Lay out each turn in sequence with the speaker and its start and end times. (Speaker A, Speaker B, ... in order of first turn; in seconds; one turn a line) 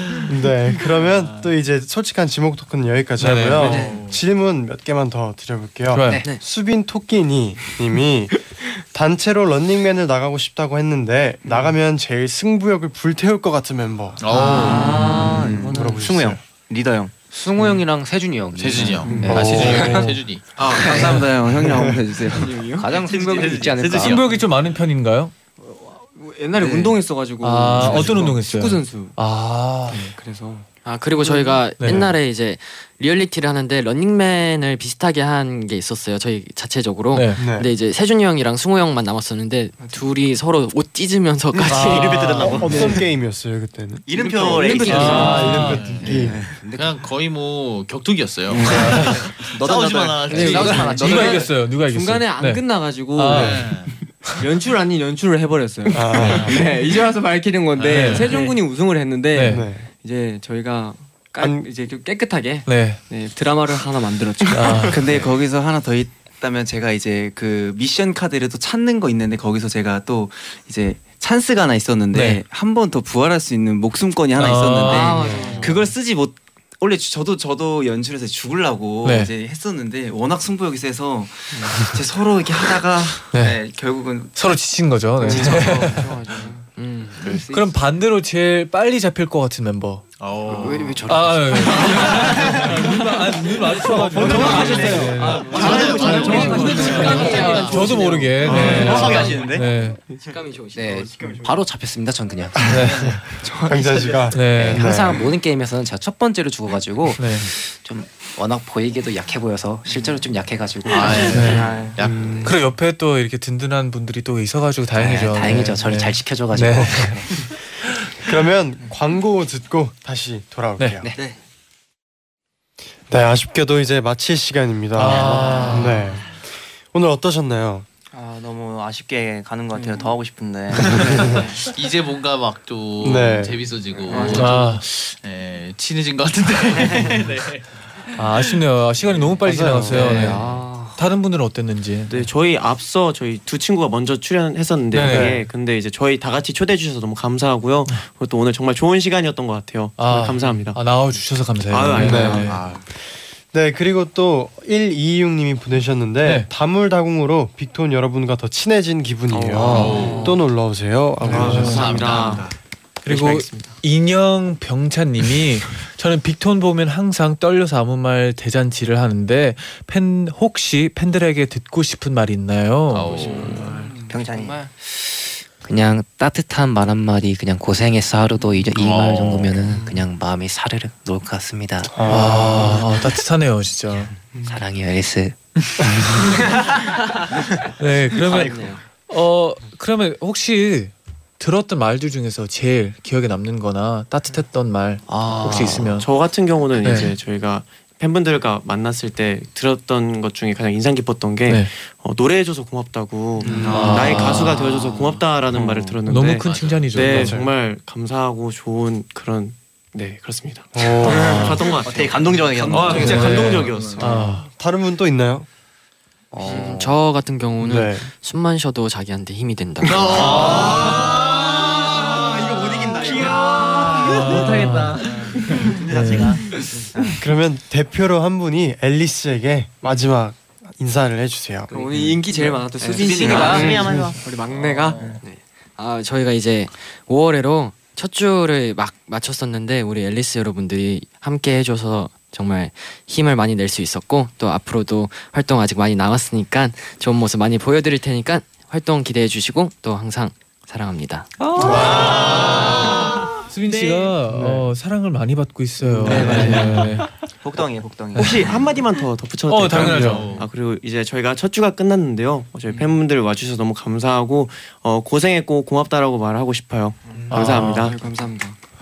Speaker A: 0.3-14.2
Speaker B: 0.8-1.5
Speaker C: 3.2-3.8
Speaker D: 3.6-4.0
Speaker B: 3.6-4.2
Speaker C: 5.9-6.2
Speaker D: 6.1-6.3
Speaker B: 14.2-15.2
Speaker E: 14.3-15.8
Speaker D: 14.4-15.3
Speaker F: 14.4-17.1
Speaker A: 14.9-16.4
Speaker G: 15.1-15.9
Speaker D: 17.3-24.4
Speaker B: 18.5-20.7
Speaker G: 19.1-19.3
Speaker A: 19.1-19.9
Speaker C: 19.6-20.2
Speaker H: 20.6-22.5
Speaker G: 20.6-21.2
Speaker A: 21.6-22.0
Speaker G: 22.3-22.9
Speaker B: 22.9-24.4
Speaker C: 24.0-25.3
Speaker G: 25.6-29.2
Speaker C: 27.4-30.0
Speaker G: 29.9-32.0
Speaker E: 30.8-43.0
Speaker C: 31.8-32.1
Speaker C: 37.1-37.4
Speaker A: 37.4-37.7
Speaker F: 41.5-43.0
Speaker A: 41.8-44.1
Speaker F: 44.0-45.8
Speaker E: 44.3-45.5
Speaker D: 44.4-47.0
Speaker G: 44.8-45.4
Speaker A: 44.8-46.4
Speaker C: 44.9-45.9
Speaker B: 45.4-51.4
Speaker D: 48.5-49.1
Speaker F: 48.6-50.9
Speaker C: 48.7-49.2
Speaker D: 50.2-51.4
Speaker C: 50.4-53.8
Speaker E: 50.5-51.5
Speaker G: 50.9-53.7
Speaker A: 53.3-53.6
Speaker B: 53.3-54.0
Speaker G: 54.4-65.3
Speaker A: 55.9-56.6
Speaker B: 56.1-56.6
Speaker C: 57.8-58.3
Speaker B: 57.8-58.4
Speaker E: 58.1-58.6
Speaker C: 59.3-59.6
Speaker A: 59.4-59.9
Speaker A: 61.4-61.6
Speaker C: 62.6-63.0
Speaker C: 64.5-65.0
Speaker H: 64.9-84.5
Speaker C: 72.1-72.4
Speaker C: 74.3-75.4
Speaker E: 74.8-75.9
Speaker G: 75.2-75.5
Speaker B: 75.3-75.8
Speaker C: 79.0-79.3
Speaker C: 83.3-86.1
Speaker E: 85.2-87.5
Speaker D: 85.3-85.8
Speaker G: 85.3-86.6
Speaker B: 87.2-87.4
Speaker D: 87.3-87.6
Speaker C: 87.5-90.0
Speaker B: 90.2-93.0
Speaker D: 90.4-92.6
Speaker C: 91.0-100.0
Speaker E: 93.9-101.6
Speaker A: 94.2-94.7
Speaker G: 94.2-97.2
Speaker D: 94.2-94.6
Speaker F: 94.2-97.7
Speaker B: 95.3-99.0
Speaker D: 95.6-97.1
Speaker F: 98.4-99.7
Speaker G: 98.8-99.2
Speaker D: 100.7-103.8
Speaker A: 102.5-105.3
Speaker C: 102.7-103.2
Speaker H: 103.4-103.9
Speaker C: 104.3-104.8
Speaker D: 104.3-112.1
Speaker C: 107.2-107.5
Speaker B: 110.9-112.5
Speaker C: 111.3-111.7
Speaker E: 111.6-111.9
Speaker I: 112.1-112.5
Speaker C: 112.4-118.2
Speaker D: 114.9-117.5
Speaker A: 118.0-121.1
Speaker D: 121.0-121.3
Speaker A: 123.1-127.8
Speaker C: 125.0-126.0
Speaker D: 125.0-126.0
Speaker F: 125.3-125.7
Speaker E: 125.3-125.9
Speaker F: 128.1-131.5
Speaker E: 129.7-130.0
Speaker A: 130.9-131.3
Speaker B: 131.0-138.4
Speaker E: 131.3-131.6
Speaker A: 133.0-133.7
Speaker E: 134.1-134.6
Speaker C: 134.3-134.8
Speaker C: 138.2-142.1
Speaker A: 139.4-140.3
Speaker D: 139.9-140.9
Speaker E: 139.9-140.6
Speaker I: 142.1-150.8
Speaker C: 144.9-145.4
Speaker A: 145.0-145.4
Speaker C: 150.0-152.6
Speaker I: 151.7-152.7
Speaker A: 152.0-152.5
Speaker B: 152.3-152.8
Speaker A: 153.5-162.1
Speaker C: 156.2-156.5
Speaker I: 159.3-160.3
Speaker B: 159.6-160.3
Speaker E: 159.9-160.4
Speaker I: 161.2-162.5
Speaker C: 161.3-161.8
Speaker B: 161.3-162.6
Speaker C: 163.0-173.2
Speaker I: 163.0-163.7
Speaker B: 172.9-173.8
Speaker D: 173.1-182.6
Speaker E: 173.7-174.0
Speaker F: 174.1-174.6
Speaker B: 178.7-179.6
Speaker A: 181.9-182.9
Speaker C: 182.1-184.1
Speaker D: 184.3-186.3
Speaker C: 187.8-196.1
Speaker F: 188.3-188.7
Speaker E: 188.3-188.8
Speaker B: 195.4-195.8
Speaker I: 195.9-214.3
Speaker C: 196.8-197.1
Speaker A: 203.4-203.8
Speaker B: 203.7-204.0
Speaker C: 203.7-204.6
Speaker C: 206.1-207.4
Speaker B: 206.4-206.9
Speaker A: 206.9-207.5
Speaker A: 210.7-211.6
Speaker C: 211.0-211.6
Speaker F: 211.0-214.0
Speaker D: 212.6-214.0
Speaker C: 213.0-214.4
Speaker A: 214.3-215.5
Speaker F: 216.3-216.9
Speaker D: 216.3-216.9
Speaker E: 216.4-220.8
Speaker A: 217.6-218.1
Speaker B: 219.8-226.6
Speaker F: 220.2-220.7
Speaker C: 224.0-225.0
Speaker F: 225.7-227.1
Speaker C: 225.7-226.4
Speaker A: 227.1-231.7
Speaker E: 231.7-251.3
Speaker G: 231.7-235.4
Speaker F: 232.9-234.2
Speaker B: 233.0-233.8
Speaker A: 233.5-234.0
Speaker B: 234.4-235.2
Speaker A: 251.6-252.2
Speaker C: 251.7-252.3
Speaker I: 251.7-252.9
Speaker C: 253.4-257.1
Speaker A: 254.3-254.7
Speaker F: 256.0-256.9
Speaker G: 256.1-256.8
Speaker A: 256.1-256.6
Speaker F: 257.4-258.7
Speaker C: 258.1-258.4
Speaker I: 258.1-268.0
Speaker C: 259.5-260.3
Speaker B: 259.8-260.5
Speaker H: 267.2-268.4
Speaker C: 267.3-267.9
Speaker G: 268.1-268.6